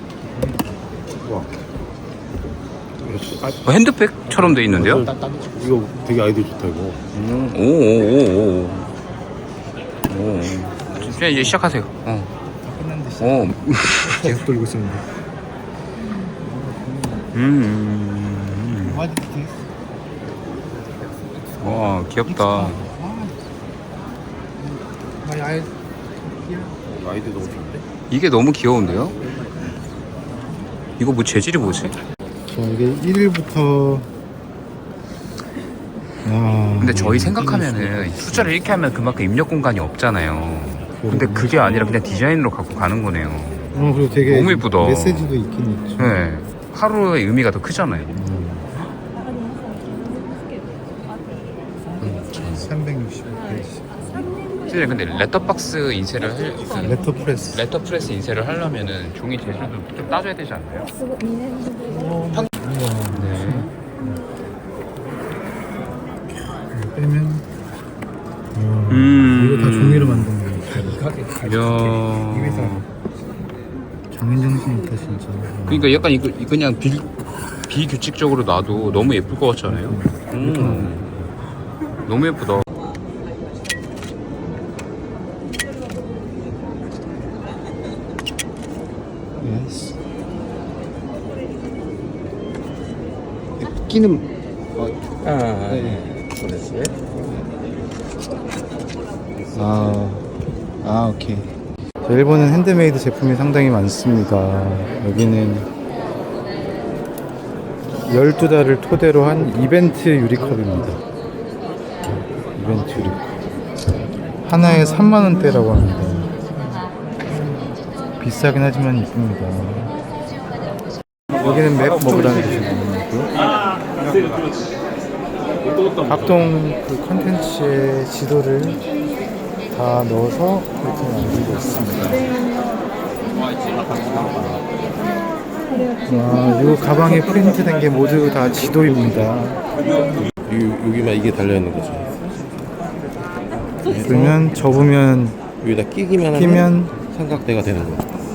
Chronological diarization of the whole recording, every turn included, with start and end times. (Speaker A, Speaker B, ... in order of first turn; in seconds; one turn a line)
Speaker A: 1.2-1.5
Speaker A: 3.0-3.6
Speaker B: 3.6-5.1
Speaker C: 4.4-5.3
Speaker A: 4.7-7.0
Speaker B: 7.1-8.9
Speaker B: 10.1-12.3
Speaker C: 11.0-11.6
Speaker C: 12.6-15.0
Speaker B: 13.2-14.4
Speaker C: 16.4-17.3
Speaker B: 17.3-19.0
Speaker C: 18.7-19.6
Speaker C: 21.2-23.4
Speaker B: 21.6-22.8
Speaker C: 24.6-25.7
Speaker C: 26.2-26.8
Speaker A: 26.9-27.8
Speaker B: 28.1-29.1
Speaker B: 31.0-31.9
Speaker C: 32.5-34.1
Speaker C: 36.2-38.6
Speaker B: 36.8-45.4
Speaker C: 40.9-41.9
Speaker C: 43.7-46.2
Speaker B: 46.0-48.2
Speaker C: 48.1-48.7
Speaker B: 52.0-52.7
Speaker C: 52.5-54.3
Speaker B: 54.7-60.9
Speaker C: 56.8-57.7
Speaker C: 61.8-64.2
Speaker B: 63.1-63.7
Speaker C: 66.7-67.5
Speaker C: 68.5-72.8
Speaker B: 68.9-70.3
Speaker B: 71.3-72.8
Speaker C: 74.1-76.2
Speaker B: 75.7-77.1
Speaker B: 77.6-81.1
Speaker C: 78.7-81.2
Speaker B: 82.0-82.7
Speaker C: 89.4-90.0
Speaker C: 93.6-94.2
Speaker A: 94.8-97.0
Speaker C: 95.7-96.0
Speaker C: 99.5-100.3
Speaker C: 100.8-105.7
Speaker C: 108.0-111.0
Speaker C: 112.5-113.2
Speaker C: 114.4-116.8
Speaker C: 118.2-119.9
Speaker C: 121.4-123.3
Speaker C: 126.0-128.8
Speaker C: 129.7-132.3
Speaker A: 133.6-134.6
Speaker C: 136.0-139.6
Speaker A: 140.4-142.1
Speaker A: 143.8-144.9
Speaker C: 144.0-145.4
Speaker A: 145.6-148.1
Speaker C: 146.3-146.9